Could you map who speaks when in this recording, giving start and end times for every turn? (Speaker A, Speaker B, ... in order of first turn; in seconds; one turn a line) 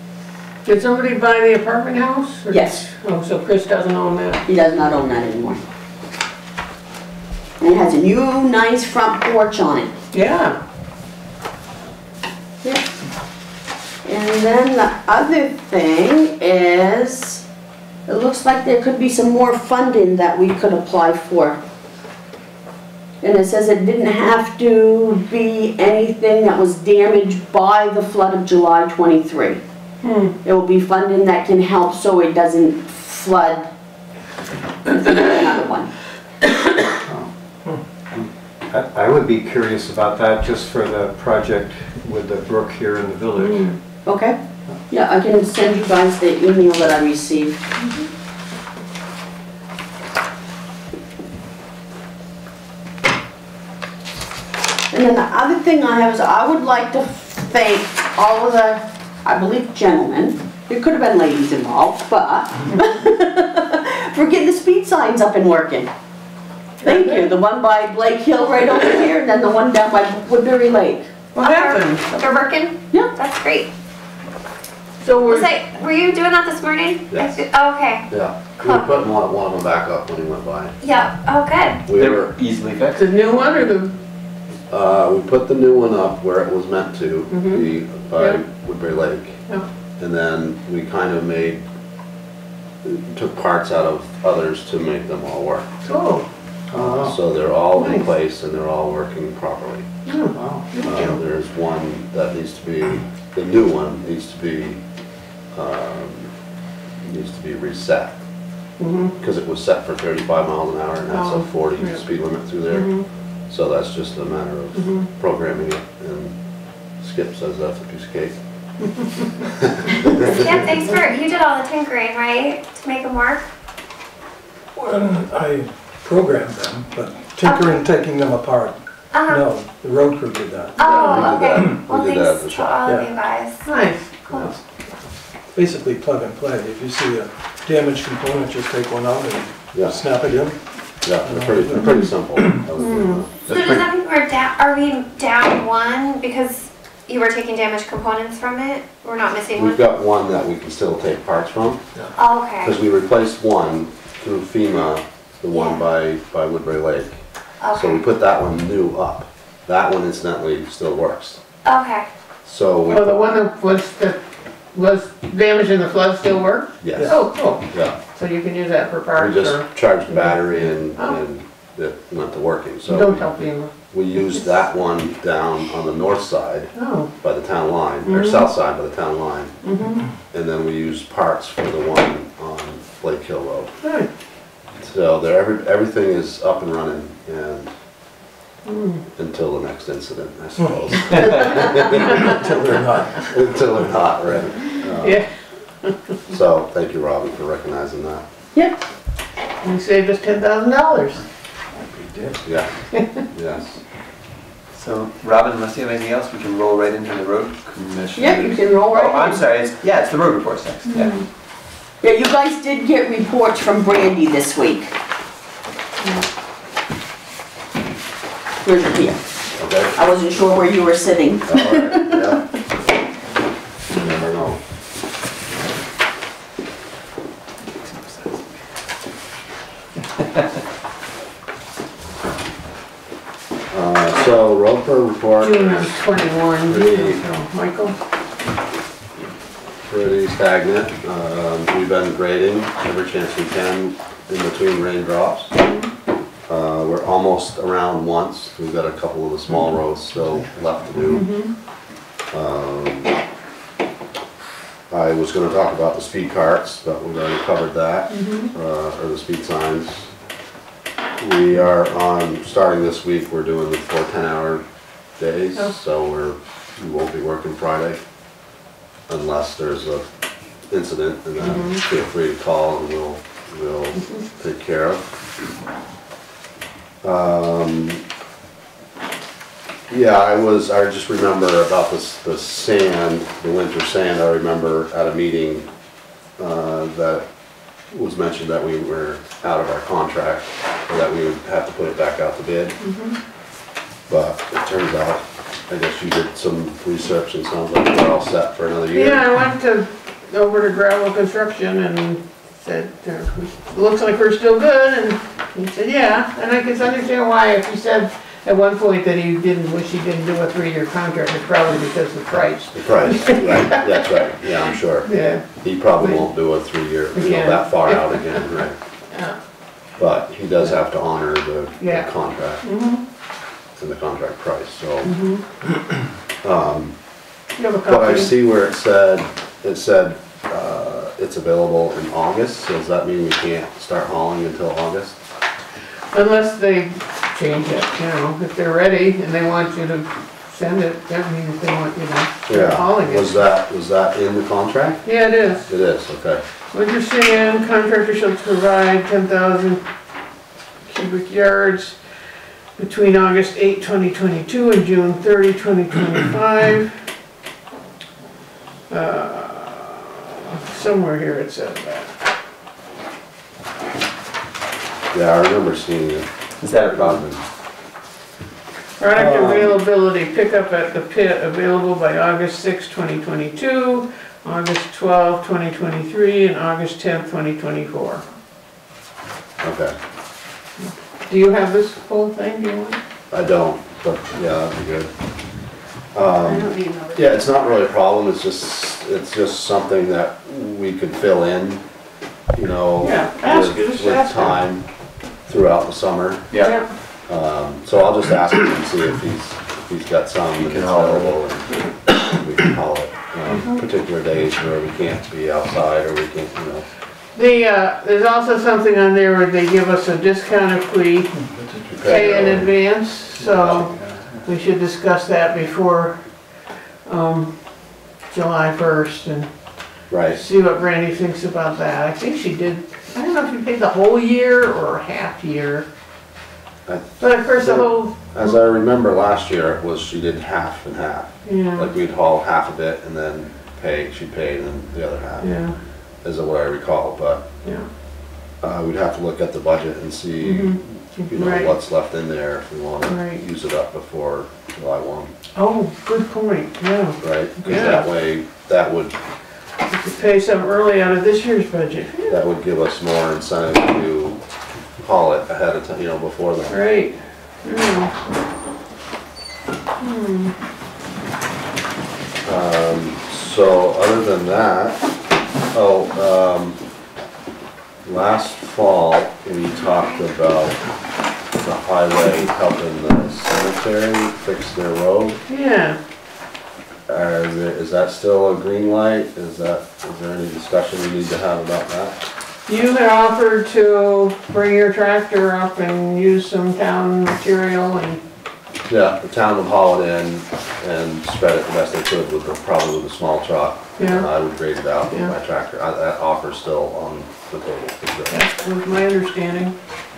Speaker A: 0.7-4.4
Speaker B: 2.5-2.9
Speaker B: 4.5-5.6
Speaker B: 7.6-9.9
Speaker A: 10.1-10.6
Speaker B: 14.0-17.4
Speaker B: 18.1-21.6
Speaker B: 23.2-29.6
Speaker A: 30.0-30.4
Speaker B: 30.4-33.7
Speaker B: 34.9-35.9
Speaker C: 37.0-37.3
Speaker C: 38.1-43.8
Speaker A: 43.4-43.8
Speaker B: 44.0-47.6
Speaker B: 54.9-65.9
Speaker A: 66.8-67.3
Speaker B: 66.8-71.1
Speaker A: 71.3-72.1
Speaker D: 71.4-73.7
Speaker A: 75.0-75.5
Speaker D: 75.2-79.1
Speaker E: 77.1-77.4
Speaker E: 78.1-80.8
Speaker D: 80.8-81.8
Speaker E: 81.9-82.3
Speaker F: 81.9-83.0
Speaker A: 82.9-84.0
Speaker E: 84.7-89.5
Speaker A: 87.3-88.4
Speaker E: 90.0-91.6
Speaker E: 92.8-95.7
Speaker A: 95.8-96.2
Speaker C: 96.7-97.2
Speaker E: 96.8-99.9
Speaker A: 97.8-98.0
Speaker A: 100.0-101.2
Speaker C: 100.3-100.7
Speaker E: 100.8-104.8
Speaker E: 105.5-106.3
Speaker E: 107.0-108.2
Speaker A: 108.8-109.1
Speaker E: 109.2-116.4
Speaker A: 111.1-112.1
Speaker A: 112.7-113.0
Speaker A: 114.8-115.0
Speaker E: 117.0-118.4
Speaker E: 119.6-120.9
Speaker D: 120.3-123.5
Speaker G: 124.8-131.8
Speaker D: 127.4-127.7
Speaker D: 129.1-129.4
Speaker D: 130.8-133.7
Speaker E: 130.8-132.8
Speaker G: 132.8-133.1
Speaker A: 133.6-134.6
Speaker D: 134.3-134.5
Speaker G: 135.5-142.6
Speaker E: 139.7-140.1
Speaker E: 141.0-143.8
Speaker A: 141.8-142.1
Speaker A: 142.8-143.2
Speaker D: 143.4-149.8
Speaker E: 149.5-152.1
Speaker D: 152.1-152.8
Speaker E: 152.6-161.4
Speaker D: 155.5-155.8
Speaker D: 157.6-158.0
Speaker D: 161.6-162.1
Speaker E: 162.4-163.2
Speaker A: 162.9-164.2
Speaker A: 164.7-171.2
Speaker E: 166.8-167.9
Speaker G: 166.9-167.2
Speaker E: 169.2-173.2
Speaker A: 172.9-173.7
Speaker E: 173.9-183.7
Speaker A: 176.8-177.1
Speaker A: 178.1-178.5
Speaker A: 179.6-180.1
Speaker A: 183.8-184.1
Speaker E: 184.8-187.7
Speaker A: 188.6-189.0
Speaker E: 189.1-192.6
Speaker G: 190.6-193.3
Speaker F: 191.2-191.4
Speaker E: 193.1-195.2
Speaker A: 195.0-195.3
Speaker E: 196.3-198.2
Speaker B: 198.5-198.8
Speaker A: 199.6-201.2
Speaker E: 202.4-203.8
Speaker A: 202.9-203.2
Speaker F: 204.7-211.2
Speaker B: 208.2-209.4
Speaker A: 210.9-211.2
Speaker B: 212.0-214.9
Speaker B: 218.6-219.2
Speaker E: 219.6-219.9
Speaker B: 219.9-222.2
Speaker E: 221.5-222.4
Speaker E: 223.9-224.6
Speaker E: 233.7-235.9
Speaker A: 235.4-237.9
Speaker E: 236.6-237.2
Speaker E: 239.8-245.5
Speaker A: 245.5-245.9
Speaker E: 246.5-251.5
Speaker G: 250.9-251.2
Speaker A: 251.1-251.5
Speaker E: 252.3-253.2
Speaker E: 254.9-260.1
Speaker A: 258.1-258.5
Speaker E: 261.2-268.0
Speaker E: 269.1-270.1
Speaker E: 270.7-275.1
Speaker A: 271.4-271.8
Speaker E: 277.0-278.0
Speaker E: 279.9-285.7
Speaker E: 286.4-292.8
Speaker A: 292.8-293.1
Speaker E: 294.1-299.2
Speaker A: 298.9-314.0
Speaker E: 312.7-318.8
Speaker A: 315.0-316.2
Speaker A: 317.1-318.4
Speaker A: 319.1-319.4
Speaker E: 320.0-322.6
Speaker A: 321.8-322.1
Speaker A: 322.6-323.0
Speaker E: 323.8-325.2
Speaker A: 325.0-325.4
Speaker E: 326.4-326.9
Speaker A: 327.6-328.3
Speaker E: 327.8-335.2
Speaker A: 336.1-343.4
Speaker E: 342.5-345.1
Speaker A: 345.0-345.6
Speaker E: 345.6-346.4
Speaker A: 346.7-349.9
Speaker A: 350.8-352.0
Speaker A: 352.8-357.1
Speaker A: 358.9-362.1
Speaker E: 365.1-366.3
Speaker F: 366.6-367.2
Speaker E: 366.8-367.4
Speaker A: 369.0-378.2
Speaker C: 369.1-369.8
Speaker E: 379.6-379.9
Speaker A: 380.8-383.0
Speaker E: 383.3-385.1
Speaker E: 386.1-391.8
Speaker A: 386.4-387.3
Speaker E: 392.5-406.9
Speaker A: 393.0-394.6
Speaker F: 396.5-396.8
Speaker A: 396.6-396.9
Speaker F: 400.6-401.4
Speaker A: 403.5-403.8
Speaker A: 407.3-411.4
Speaker G: 411.3-412.7
Speaker E: 411.9-412.8
Speaker A: 412.1-425.9
Speaker C: 413.4-414.5
Speaker E: 413.6-413.8
Speaker E: 420.1-420.4
Speaker E: 426.9-437.4
Speaker A: 427.2-428.6
Speaker A: 431.4-431.9
Speaker A: 435.4-435.8
Speaker E: 438.6-445.3
Speaker A: 440.4-441.7
Speaker A: 443.1-443.4
Speaker A: 445.5-448.1
Speaker E: 447.2-449.2
Speaker A: 449.9-452.4
Speaker E: 452.3-454.4
Speaker E: 455.0-456.8
Speaker A: 456.7-458.1
Speaker A: 460.0-460.5
Speaker E: 462.4-465.1
Speaker E: 465.7-466.8
Speaker E: 468.0-470.9
Speaker E: 471.5-475.4
Speaker A: 475.5-476.0
Speaker E: 477.1-482.2
Speaker A: 482.7-488.2
Speaker E: 488.9-498.4
Speaker A: 494.0-494.3
Speaker A: 498.3-499.8